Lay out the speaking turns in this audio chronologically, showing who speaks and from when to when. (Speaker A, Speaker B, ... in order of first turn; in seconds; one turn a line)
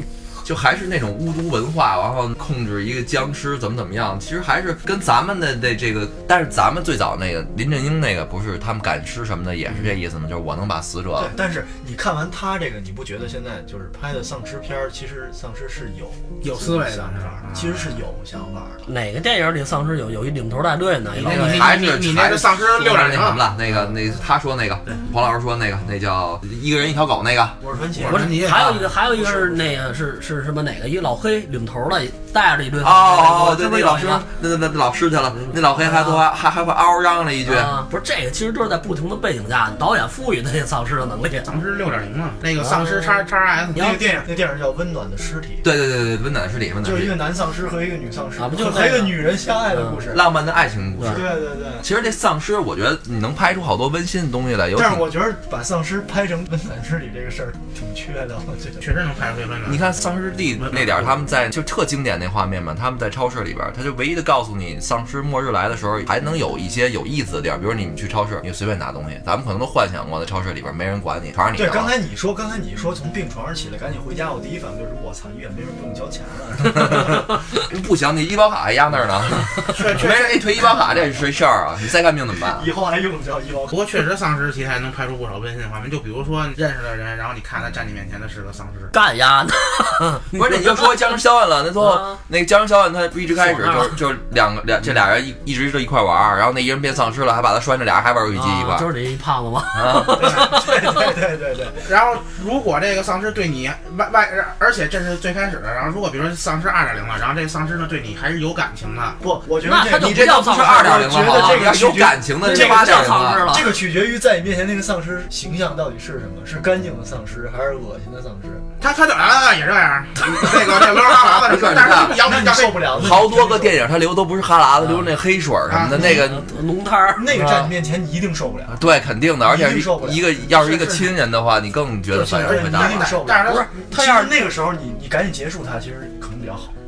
Speaker A: 0.4-11.3
Speaker B: 11.2-18.9
Speaker C: 16.4-17.9
Speaker D: 18.9-21.7
Speaker C: 21.1-23.4
Speaker A: 21.3-27.6
Speaker B: 27.6-28.4
Speaker C: 28.0-28.9
Speaker D: 28.1-34.2
Speaker B: 29.1-29.8
Speaker A: 32.8-37.8
Speaker D: 35.5-36.2
Speaker D: 37.5-41.5
Speaker C: 41.5-44.0
Speaker D: 42.6-43.2
Speaker D: 43.7-44.0
Speaker B: 43.7-45.6
Speaker A: 45.6-47.2
Speaker B: 46.8-50.3
Speaker D: 48.4-50.0
Speaker A: 50.1-55.1
Speaker D: 51.0-51.2
Speaker B: 51.0-51.9
Speaker B: 54.8-58.8
Speaker C: 58.8-59.9
Speaker A: 59.7-72.0
Speaker C: 60.6-61.2
Speaker B: 71.5-77.3
Speaker A: 76.7-82.7
Speaker C: 79.7-80.3
Speaker B: 82.5-83.8
Speaker C: 83.7-88.9
Speaker D: 88.9-91.1
Speaker A: 90.3-98.9
Speaker D: 91.8-92.2
Speaker D: 93.4-94.0
Speaker D: 98.3-101.2
Speaker A: 99.7-100.5
Speaker B: 100.1-101.9
Speaker C: 101.8-109.2
Speaker B: 109.2-118.6
Speaker D: 109.6-111.8
Speaker A: 109.9-113.5
Speaker D: 112.4-113.8
Speaker C: 118.8-123.2
Speaker A: 120.7-126.5
Speaker B: 122.0-123.8
Speaker D: 124.8-125.1
Speaker C: 125.7-126.2
Speaker D: 125.9-127.5
Speaker B: 127.2-128.8
Speaker A: 127.3-127.7
Speaker A: 128.7-133.2
Speaker B: 129.4-130.5
Speaker C: 130.6-131.0
Speaker C: 132.1-133.7
Speaker B: 132.4-136.7
Speaker D: 133.4-134.5